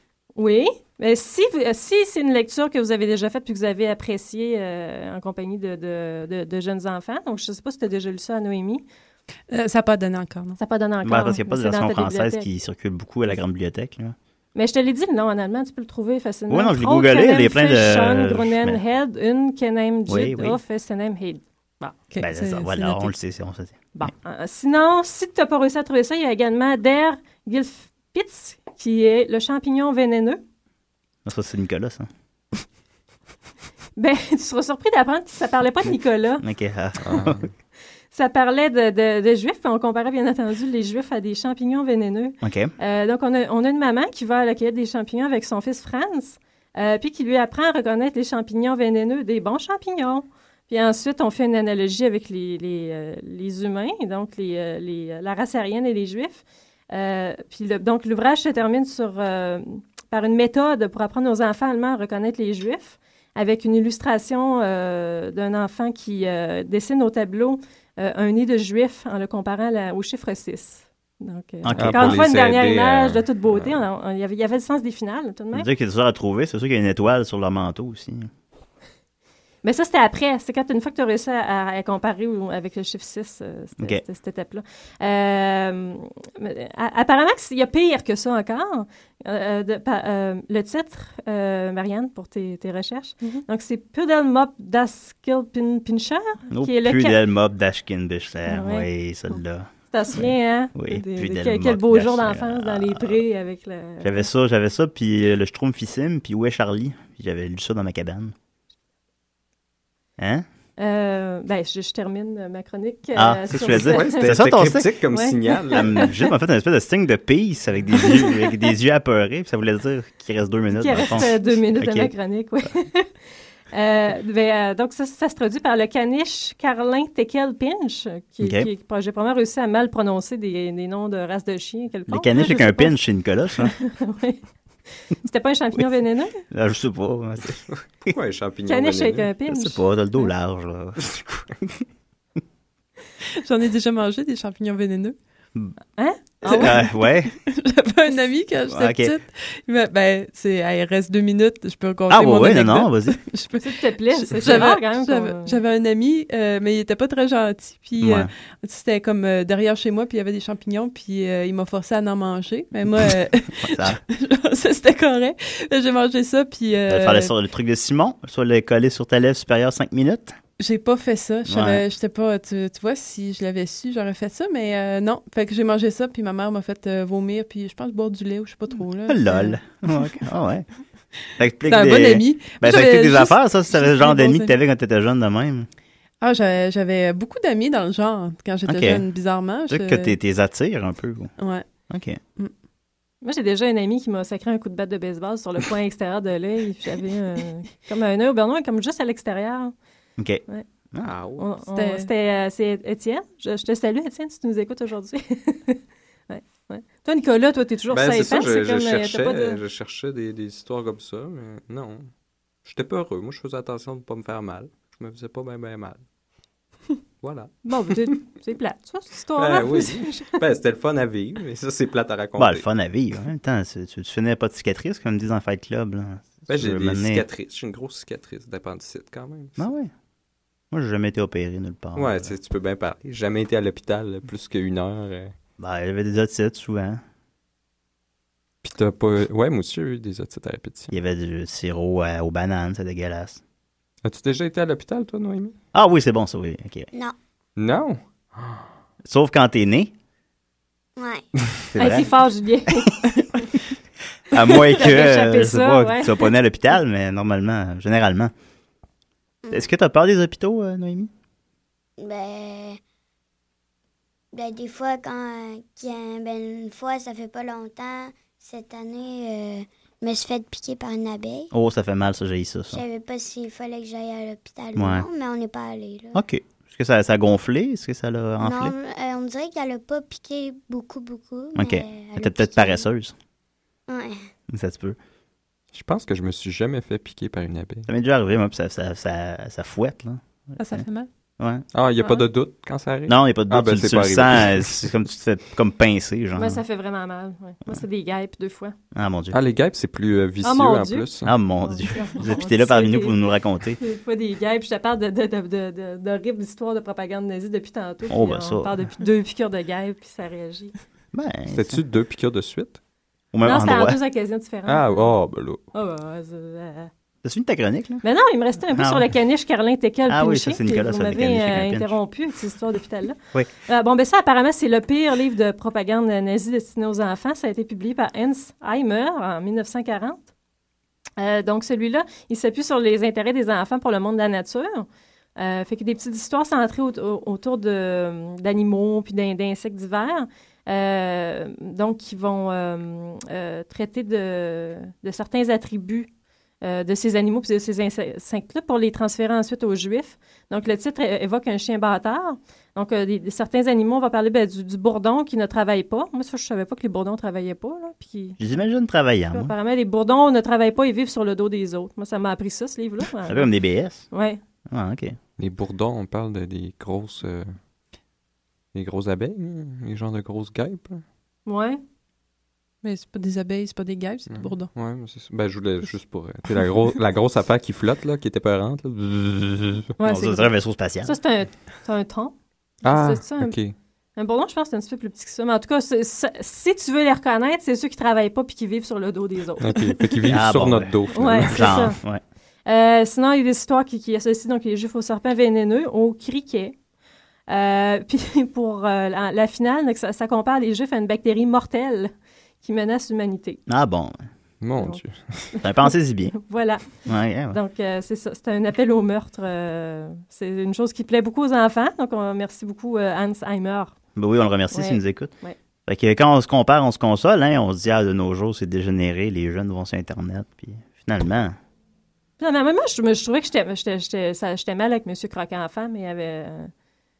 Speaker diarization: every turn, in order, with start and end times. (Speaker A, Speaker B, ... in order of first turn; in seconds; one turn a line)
Speaker A: 0.3-8.8
Speaker B: 9.5-10.6
Speaker A: 10.6-12.4
Speaker C: 11.0-14.1
Speaker A: 14.5-22.1
Speaker C: 16.5-18.8
Speaker C: 20.1-20.6
Speaker B: 22.1-23.1
Speaker C: 22.2-24.1
Speaker A: 23.9-30.4
Speaker C: 31.2-32.1
Speaker A: 34.0-36.4
Speaker C: 36.4-37.4
Speaker D: 37.0-37.5
Speaker A: 38.1-75.7
Speaker C: 42.4-42.7
Speaker C: 71.6-72.2
Speaker D: 71.7-73.8
Speaker C: 75.5-78.3
Speaker A: 79.6-97.2
Speaker C: 96.5-103.2
Speaker A: 98.5-98.9
Speaker A: 99.9-104.2
Speaker C: 104.0-108.3
Speaker C: 110.2-110.4
Speaker A: 110.8-114.3
Speaker C: 113.1-114.9
Speaker D: 113.5-116.1
Speaker A: 115.1-116.2
Speaker C: 115.7-122.1
Speaker A: 118.0-118.5
Speaker A: 120.8-123.1
Speaker A: 123.7-132.9
Speaker C: 128.4-128.7
Speaker C: 132.1-133.7
Speaker A: 133.6-134.4
Speaker A: 135.2-136.4
Speaker C: 136.5-137.6
Speaker D: 137.7-139.3
Speaker A: 138.7-140.2
Speaker C: 139.5-141.7
Speaker B: 143.4-145.2
Speaker A: 146.0-146.9
Speaker C: 146.4-147.3
Speaker B: 147.5-167.3
Speaker C: 148.7-149.1
Speaker C: 152.1-153.2
Speaker A: 153.6-155.6
Speaker C: 158.0-158.3
Speaker C: 163.6-164.0
Speaker C: 166.9-170.4
Speaker B: 170.6-179.6
Speaker C: 171.5-171.8
Speaker C: 179.1-180.7
Speaker C: 181.4-185.7
Speaker B: 181.6-184.6
Speaker B: 186.2-190.2
Speaker C: 188.7-189.0
Speaker C: 189.7-191.3
Speaker B: 191.4-191.7
Speaker C: 191.9-192.2
Speaker A: 193.2-199.7
Speaker C: 200.2-201.1
Speaker D: 201.0-201.5
Speaker A: 201.4-209.6
Speaker B: 201.7-202.1
Speaker D: 207.9-212.1
Speaker D: 212.6-216.0
Speaker D: 217.2-217.5
Speaker A: 217.6-220.4
Speaker D: 219.3-222.7
Speaker C: 222.4-227.2
Speaker D: 226.5-229.7
Speaker C: 229.6-229.9
Speaker C: 230.7-232.3
Speaker D: 231.9-235.3
Speaker C: 235.6-237.0
Speaker D: 238.6-240.9
Speaker C: 240.9-243.4
Speaker D: 244.0-245.5
Speaker C: 245.7-246.9
Speaker D: 247.6-248.6
Speaker C: 249.0-249.9
Speaker E: 251.0-251.3
Speaker C: 251.7-252.1
Speaker A: 251.8-253.6
Speaker C: 254.3-258.3
Speaker A: 254.4-256.3
Speaker C: 259.5-261.1
Speaker E: 262.0-262.8
Speaker E: 264.3-271.5
Speaker C: 271.5-272.8
Speaker E: 272.7-276.2
Speaker C: 274.8-275.1
Speaker C: 276.1-278.7
Speaker E: 278.4-282.8
Speaker C: 281.6-283.1
Speaker E: 283.9-284.3
Speaker C: 284.5-285.0
Speaker D: 285.7-287.9
Speaker C: 287.9-290.8
Speaker B: 290.6-291.1
Speaker C: 291.4-291.6
Speaker D: 291.7-294.9
Speaker C: 293.1-296.6
Speaker A: 296.3-298.7
Speaker C: 298.9-299.4
Speaker D: 299.3-301.3
Speaker A: 300.4-301.1
Speaker C: 301.2-303.8
Speaker A: 301.7-303.2
Speaker A: 303.8-310.7
Speaker C: 308.1-308.9
Speaker C: 311.1-311.8
Speaker D: 311.5-312.8
Speaker C: 313.3-314.0
Speaker A: 313.4-315.1
Speaker D: 314.6-315.6
Speaker A: 315.7-316.9
Speaker C: 317.2-318.0
Speaker A: 318.0-330.2
Speaker C: 318.7-319.1
Speaker C: 320.1-321.9
Speaker A: 331.2-346.1
Speaker A: 346.6-358.4
Speaker C: 358.4-359.5
Speaker A: 359.3-363.5
Speaker C: 363.3-364.1
Speaker A: 364.1-364.4
Speaker C: 364.7-365.1
Speaker D: 365.4-367.6
Speaker D: 368.7-371.0
Speaker A: 371.4-371.8
Speaker B: 372.8-374.7
Speaker D: 374.3-379.9
Speaker A: 380.0-380.5
Speaker C: 380.0-381.1
Speaker A: 381.0-383.6
Speaker D: 382.8-383.7
Speaker A: 384.1-390.0
Speaker D: 389.6-391.9
Speaker C: 390.3-392.2
Speaker A: 391.1-392.0
Speaker A: 392.6-396.7
Speaker A: 397.5-403.6
Speaker C: 403.7-404.2
Speaker D: 404.6-405.5
Speaker A: 404.8-413.9
Speaker C: 405.6-406.4
Speaker C: 407.0-407.6
Speaker C: 414.1-415.3
Speaker A: 414.7-415.6
Speaker C: 415.9-421.5
Speaker A: 422.4-426.7